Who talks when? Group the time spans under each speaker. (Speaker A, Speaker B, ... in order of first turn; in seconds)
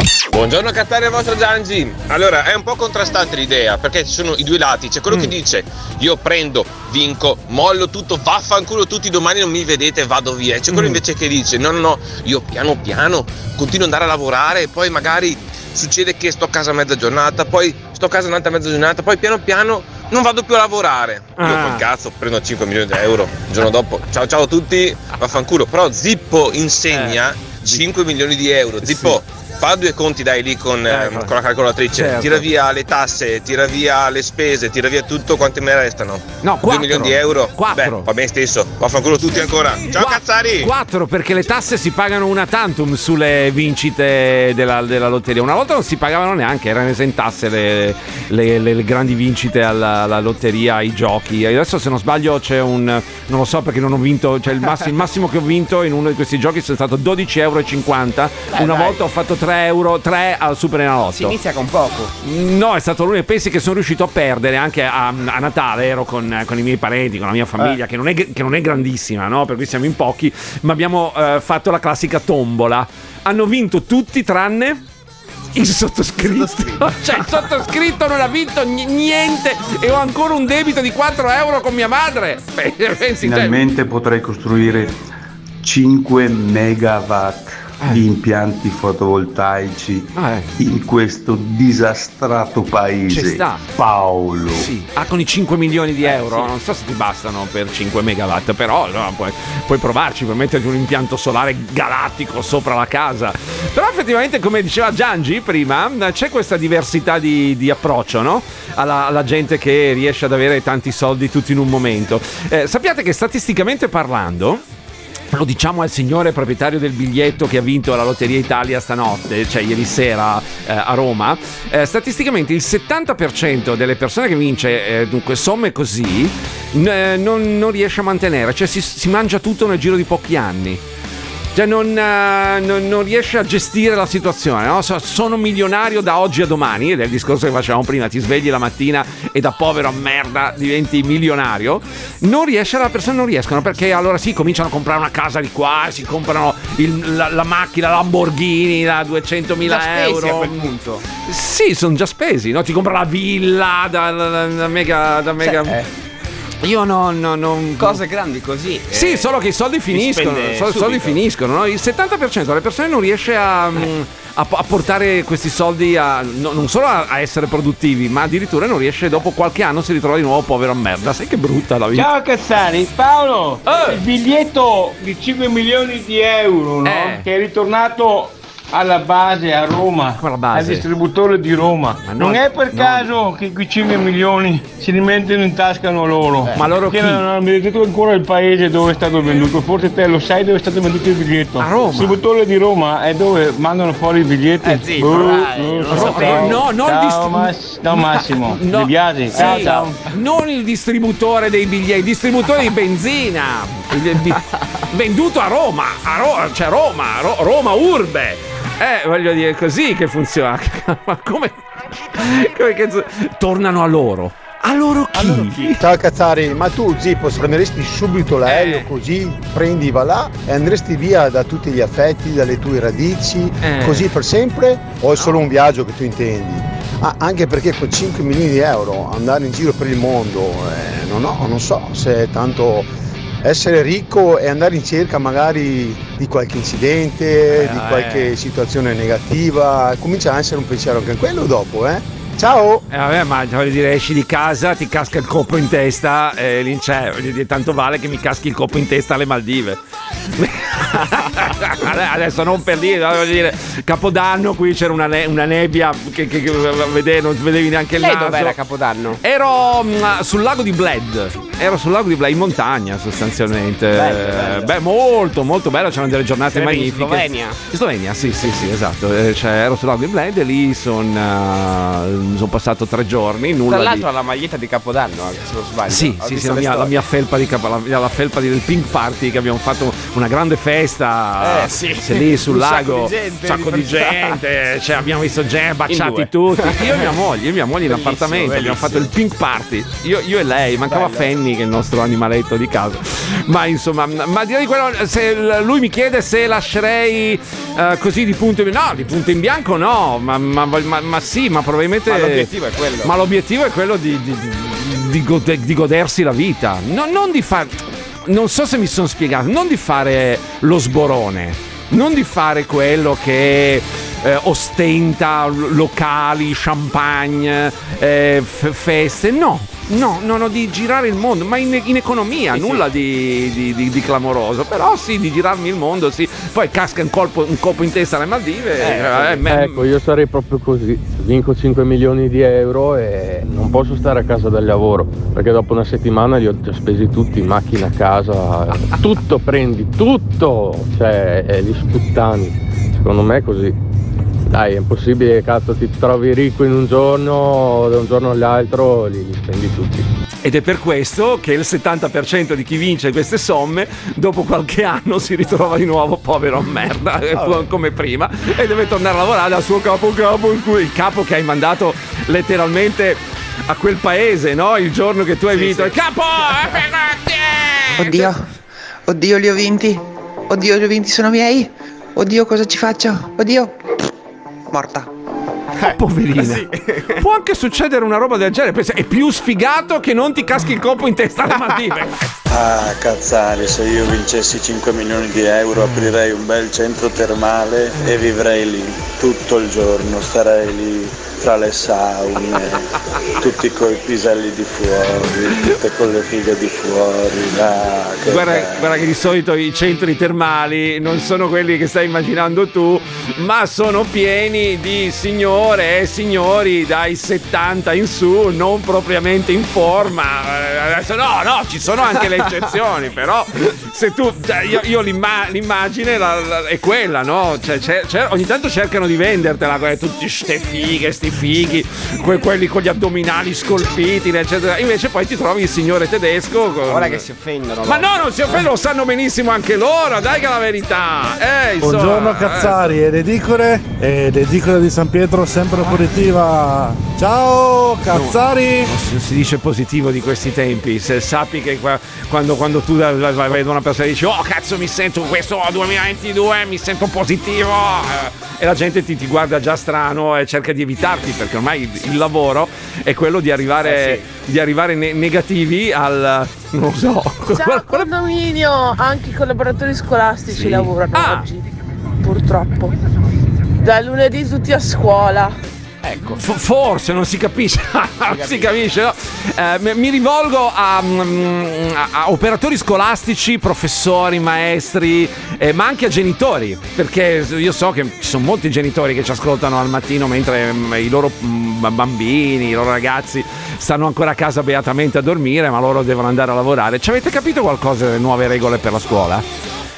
Speaker A: 0.3-40.7
Speaker B: 10.7-11.0, 21.4-21.9, 26.9-27.9, 28.8-29.2, 30.9-31.4, 31.9-32.5, 36.4-38.1, 39.9-61.4, 62.2-74.8, 75.5-83.6, 90.2-90.6, 93.1-93.6, 94.5-114.6, 115.3-130.8, 131.5-155.8, 156.6-158.0, 158.9-172.1, 173.7-174.0, 176.8-177.2, 180.2-180.9, 182.0-183.1, 186.5-187.2, 191.6-192.2, 195.9-215.8, 218.5-218.9, 223.6-224.1, 237.5-238.3, 242.9-249.8, 250.3-258.6, 259.2-274.1, 275.9-302.5, 303.0-329.9, 350.4-368.3, 376.0-376.7, 377.2-382.2, 398.3-427.2, 427.9-433.0, 435.8-436.1, 438.1-458.1, 460.5-461.5, 466.4-489.5
Speaker C: 58.5-59.0, 61.1-62.1, 76.2-77.5, 96.0-96.5, 149.6-151.0, 155.4-155.9, 157.8-159.3, 159.9-161.2, 194.6-196.6, 215.1-215.7, 258.0-259.2, 263.9-264.7, 266.5-267.6, 273.7-277.0, 281.4-284.4, 285.9-287.1, 287.9-289.1, 290.9-291.3, 302.1-303.1, 322.5-322.8, 328.8-329.4, 357.3-357.7, 365.5-366.0, 375.8-377.2, 426.9-428.6, 453.8-454.2, 466.0-466.4, 468.3-468.9
Speaker D: 83.2-85.0, 85.6-94.7
Speaker E: 171.9-200.0
Speaker F: 215.8-232.9, 233.4-242.8
Speaker G: 329.5-343.8, 344.5-350.1
Speaker H: 368.0-368.5, 369.1-373.8, 374.7-375.1
Speaker I: 382.5-398.9
Speaker J: 431.8-438.9
Speaker K: 457.5-461.7, 462.2-462.9, 463.8-465.5